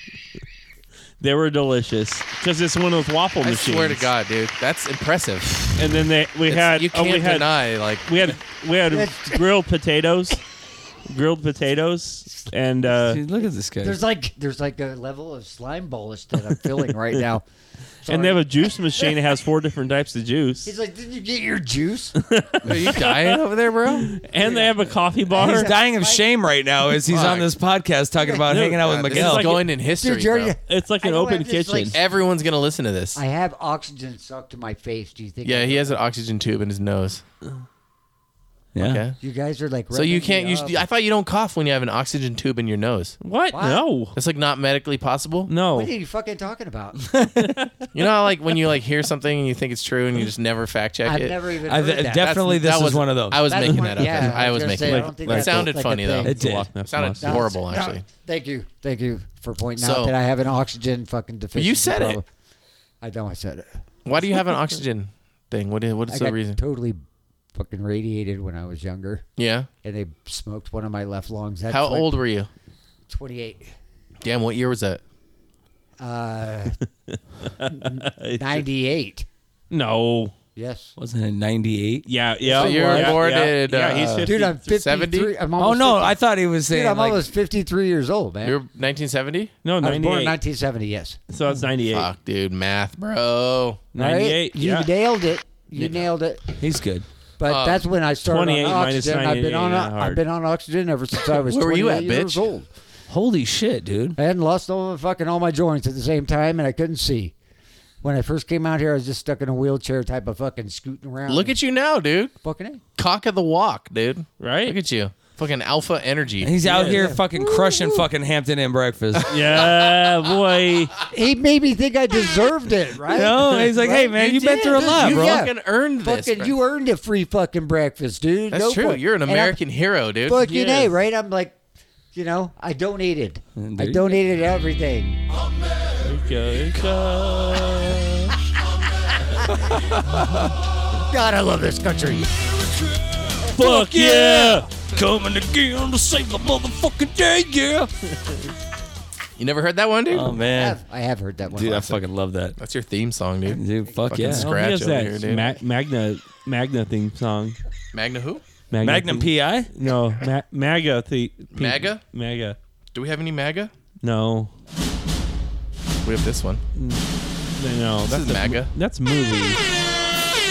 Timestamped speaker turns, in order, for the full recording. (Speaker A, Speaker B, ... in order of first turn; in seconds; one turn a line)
Speaker A: 1.2-4.1
Speaker B: 3.4-5.7
Speaker A: 5.8-10.4
Speaker B: 6.5-8.3
Speaker C: 8.9-9.4
Speaker A: 11.1-13.2
Speaker D: 12.9-14.0
Speaker C: 13.8-17.4
Speaker C: 18.0-18.4
Speaker A: 18.1-20.7
Speaker C: 20.6-22.1
Speaker A: 22.2-23.4
Speaker B: 22.6-24.1
Speaker A: 24.0-25.7
Speaker C: 24.4-24.7
Speaker C: 25.3-26.2
Speaker D: 25.4-29.5
Speaker B: 27.1-27.5
Speaker A: 28.5-29.6
Speaker B: 28.8-30.5
Speaker C: 30.0-32.0
Speaker A: 30.7-31.9
Speaker B: 31.9-33.2
Speaker C: 33.1-36.0
Speaker B: 35.4-37.2
Speaker D: 38.7-39.0
Speaker B: 38.8-39.2
Speaker C: 39.2-40.8
Speaker B: 39.9-43.2
Speaker A: 43.2-44.1
Speaker C: 43.5-43.8
Speaker B: 44.1-45.5
Speaker A: 45.5-45.9
Speaker C: 45.7-47.0
Speaker D: 47.0-47.6
Speaker A: 47.4-47.7
Speaker B: 47.9-51.4
Speaker C: 51.0-52.3
Speaker D: 51.6-53.7
Speaker B: 52.1-58.0
Speaker C: 53.5-56.3
Speaker A: 53.7-57.5
Speaker D: 56.2-56.7
Speaker C: 57.2-62.2
Speaker B: 59.8-60.1
Speaker B: 61.5-62.2
Speaker C: 63.0-63.6
Speaker B: 64.0-66.6
Speaker C: 66.1-67.0
Speaker C: 67.5-69.2
Speaker B: 69.4-69.7
Speaker C: 69.8-72.1
Speaker B: 71.7-72.5
Speaker C: 73.1-73.7
Speaker B: 74.2-75.0
Speaker C: 76.0-76.8
Speaker A: 77.1-78.6
Speaker C: 77.7-79.2
Speaker A: 79.7-80.3
Speaker C: 80.5-80.9
Speaker D: 81.0-82.1
Speaker A: 82.1-84.6
Speaker C: 82.4-83.2
Speaker B: 82.5-85.3
Speaker C: 84.2-86.2
Speaker D: 85.6-87.2
Speaker C: 86.7-88.6
Speaker B: 88.4-89.5
Speaker A: 89.6-90.3
Speaker C: 89.8-91.2
Speaker A: 91.3-92.1
Speaker B: 91.9-93.8
Speaker A: 93.9-94.9
Speaker C: 94.0-96.4
Speaker D: 96.6-97.0
Speaker C: 97.4-102.7
Speaker B: 97.5-97.8
Speaker A: 98.2-100.2
Speaker B: 101.4-102.4
Speaker D: 103.1-104.2
Speaker C: 104.2-107.3
Speaker C: 108.0-111.5
Speaker B: 111.3-112.3
Speaker C: 112.4-112.8
Speaker B: 113.0-116.6
Speaker A: 114.4-114.8
Speaker D: 116.4-119.3
Speaker C: 116.7-118.0
Speaker A: 116.7-117.0
Speaker A: 119.3-120.9
Speaker C: 121.1-129.6
Speaker D: 123.1-125.5
Speaker B: 124.1-126.5
Speaker B: 128.5-130.4
Speaker C: 130.2-131.5
Speaker A: 130.4-130.9
Speaker C: 132.1-135.2
Speaker D: 133.6-134.2
Speaker A: 136.0-138.3
Speaker C: 141.0-142.3
Speaker D: 143.4-147.9
Speaker A: 143.5-144.7
Speaker B: 149.4-150.3
Speaker D: 150.1-150.8
Speaker C: 150.5-151.8
Speaker D: 151.5-152.6
Speaker B: 151.7-152.0
Speaker B: 152.6-155.5
Speaker D: 153.5-154.5
Speaker A: 154.2-157.6
Speaker B: 157.9-158.4
Speaker A: 158.7-162.6
Speaker D: 158.8-159.7
Speaker B: 161.5-162.0
Speaker B: 162.9-163.7
Speaker A: 164.0-164.5
Speaker B: 166.0-166.6
Speaker A: 166.8-167.0
Speaker A: 167.6-169.6
Speaker B: 168.1-168.7